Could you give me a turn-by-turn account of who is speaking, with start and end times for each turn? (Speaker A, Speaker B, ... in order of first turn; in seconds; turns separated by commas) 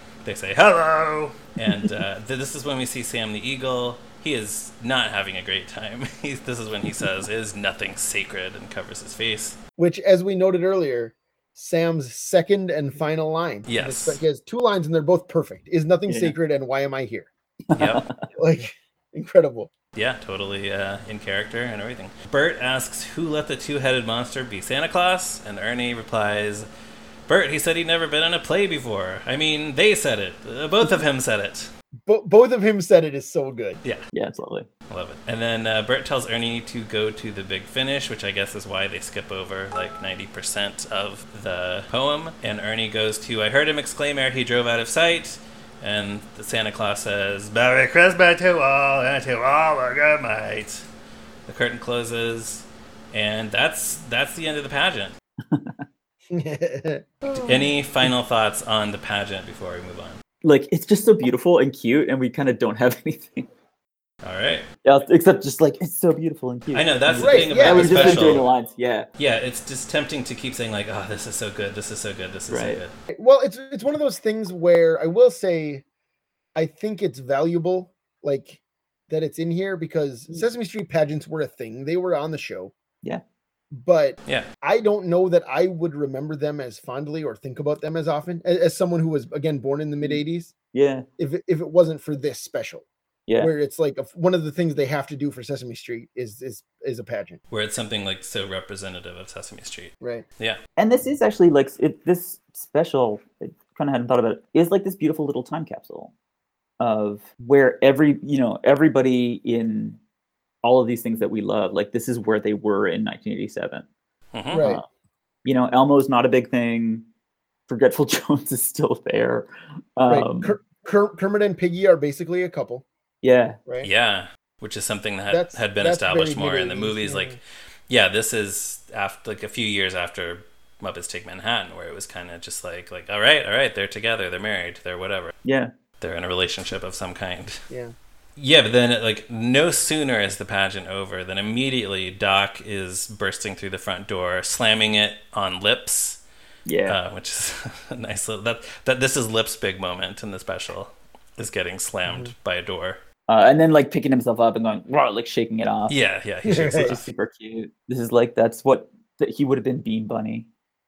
Speaker A: 0.2-9.6, Speaker B: 9.8-17.3, Speaker A: 13.7-14.2, Speaker C: 16.1-16.3, Speaker C: 17.7-18.1, Speaker A: 17.7-18.0, Speaker B: 18.3-19.7, Speaker A: 19.9-26.7, Speaker A: 27.3-31.7, Speaker B: 32.0-33.8, Speaker C: 34.1-34.7, Speaker A: 34.9-50.8, Speaker A: 51.5-55.1, Speaker B: 56.3-57.7, Speaker A: 57.4-60.2, Speaker C: 60.4-63.5, Speaker A: 64.2-64.7, Speaker C: 64.8-69.1, Speaker A: 66.7-68.5, Speaker B: 67.2-68.4, Speaker A: 69.2-72.9, Speaker C: 72.5-72.8, Speaker B: 73.1-75.8, Speaker B: 76.5-82.7, Speaker B: 83.7-90.5, Speaker C: 90.7-91.0, Speaker B: 91.2-92.8, Speaker C: 93.3-93.5, Speaker B: 93.4-97.4, Speaker A: 97.5-100.6, Speaker B: 100.0-100.2, Speaker C: 100.8-106.1, Speaker C: 106.8-110.0, Speaker C: 110.6-113.8, Speaker A: 114.3-114.7, Speaker B: 114.5-114.8, Speaker C: 114.5-114.8, Speaker C: 115.4-117.0, Speaker C: 117.7-120.5, Speaker B: 120.1-122.8, Speaker C: 123.2-123.6, Speaker A: 123.8-135.3, Speaker B: 125.3-127.4, Speaker C: 135.4-135.7, Speaker A: 136.0-137.6, Speaker B: 137.7-137.9, Speaker A: 138.3-146.2, Speaker C: 146.7-147.0, Speaker A: 146.9-153.0, Speaker B: 152.0-152.3, Speaker C: 153.3-156.0, Speaker A: 155.9-157.1, Speaker B: 156.4-157.0, Speaker C: 156.7-160.5